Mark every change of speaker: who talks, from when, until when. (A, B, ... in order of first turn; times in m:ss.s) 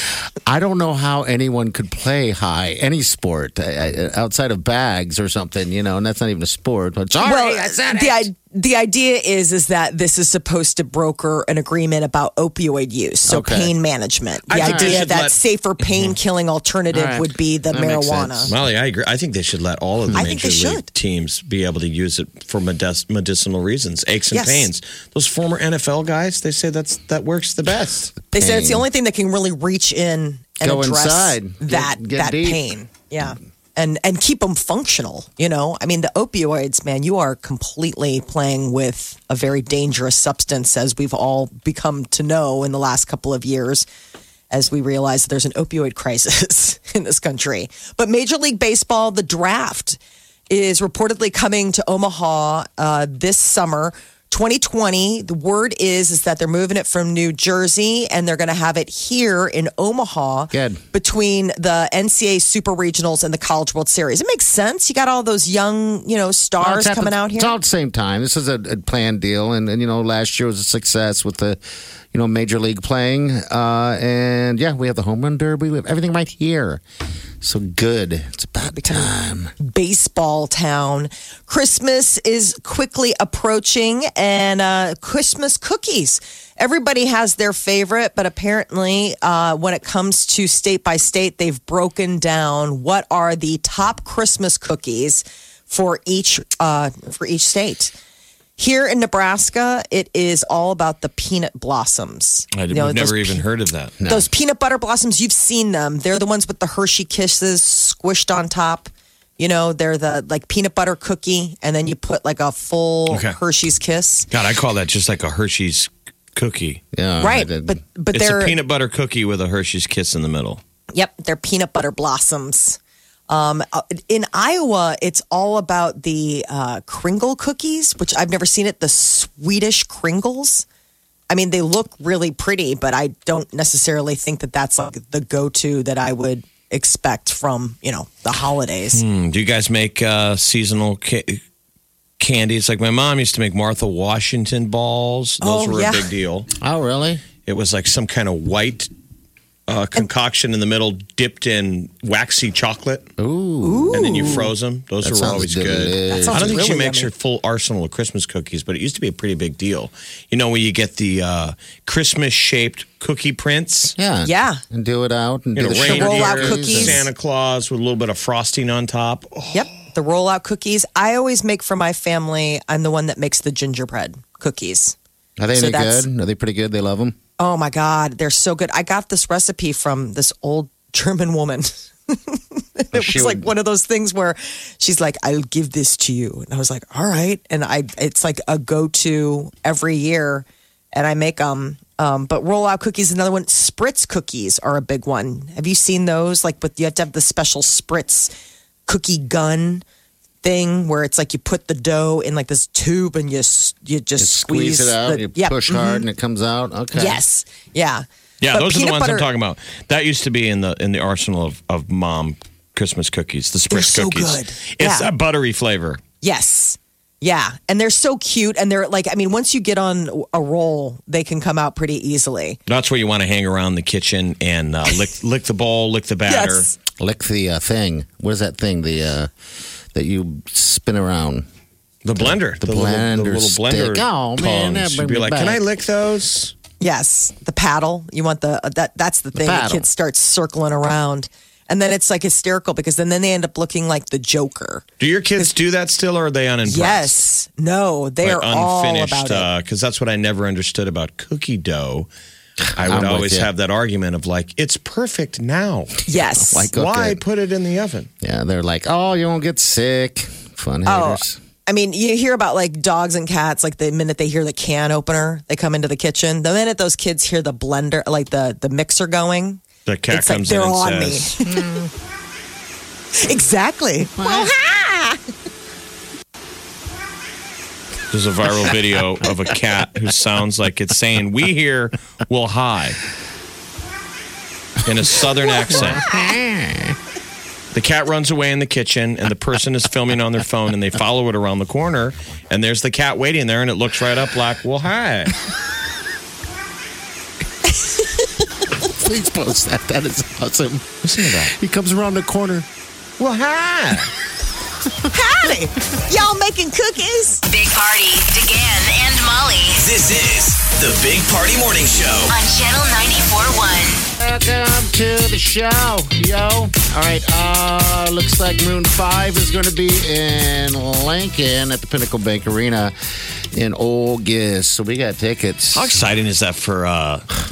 0:00.5-0:08.3 A
0:07.2-0:18.5 B
0:13.2-0:13.7 A
0:14.5-0:15.4 C
0:14.5-0:15.1 A
0:16.9-0:18.6 A
0:18.5-0:28.1 C
0:20.1-0:20.9 B
0:24.3-0:24.7 B
0:28.3-0:28.9 A
0:28.3-0:43.8 B
0:30.6-0:32.6 A
0:44.5-0:50.0 B
0:50.5-1:07.6 B
1:00.5-1:00.8 A
1:06.6-1:11.6 A
1:12.1-1:16.8 A
1:17.4-1:19.5 A
1:18.6-1:37.9 B
1:38.6-1:43.4 B
1:42.5-1:44.0 C
1:44.0-1:44.3 A
1:44.0-1:54.3 B
1:53.1-1:53.4 C
1:54.3-1:56.8 C
1:56.9-1:57.8 A
1:57.2-1:58.6 B
1:58.1-2:00.6 C
2:00.9-2:10.7 B
2:11.3-2:19.0 B
2:18.9-2:21.4 C
2:22.2-2:26.5 C
2:25.4-2:26.1 B
2:26.6-2:27.2 A
2:27.5-2:28.9 C
2:29.7-2:33.1 C
2:33.2-2:34.2 A
2:33.6-2:34.5 B
2:33.9-2:44.0 C
2:35.0-2:36.6 A
2:36.1-2:37.1 B
2:44.0-2:47.1 A
2:44.2-2:44.6 B
2:45.6-2:49.7 C
2:45.8-2:47.0 B
2:49.5-2:55.0 B
2:55.4-2:57.2 A
2:55.5-2:56.1 B
2:57.4-3:18.3 B
3:02.9-3:03.5 A
3:18.9-3:19.8 B
3:20.4-3:26.1 B
3:24.2-3:27.2 A
3:26.9-3:29.3 B
3:28.4-3:36.0 C
3:33.7-3:35.1 B
3:36.2-3:42.6 B
3:42.7-3:46.7 C
3:46.3-3:46.7 B
3:47.0-3:49.3 A
3:49.9-3:51.4 A
3:52.0-3:56.5 C
3:52.2-3:55.6 A
3:56.8-4:04.8 B
3:59.4-3:59.9 A
4:05.0-4:07.2 C
4:06.6-4:09.5 B
4:08.2-4:12.1 C
4:12.7-4:16.0 C
4:12.8-4:13.5 A
4:16.1-4:16.7 B
4:16.1-4:17.2 A
4:16.7-4:18.1 C
4:18.2-4:21.4 A
4:20.8-4:31.7 B
4:29.9-4:31.3 C
4:31.4-4:31.9 A
4:33.2-4:35.2 B
4:34.2-4:34.6 A
4:38.1-4:43.0 C
4:44.8-4:46.1 C
4:45.7-4:47.0 A
4:47.7-4:55.4 C
4:57.8-4:58.3 B
4:58.9-5:02.7 A
5:01.0-5:01.5 C
5:03.2-5:04.1 C
5:05.1-5:07.4 B
5:07.5-5:09.9 D
5:09.8-5:12.4 E
5:12.3-5:14.0 D
5:14.2-5:23.0 A
5:23.5-5:25.9 A
5:25.7-5:27.4 C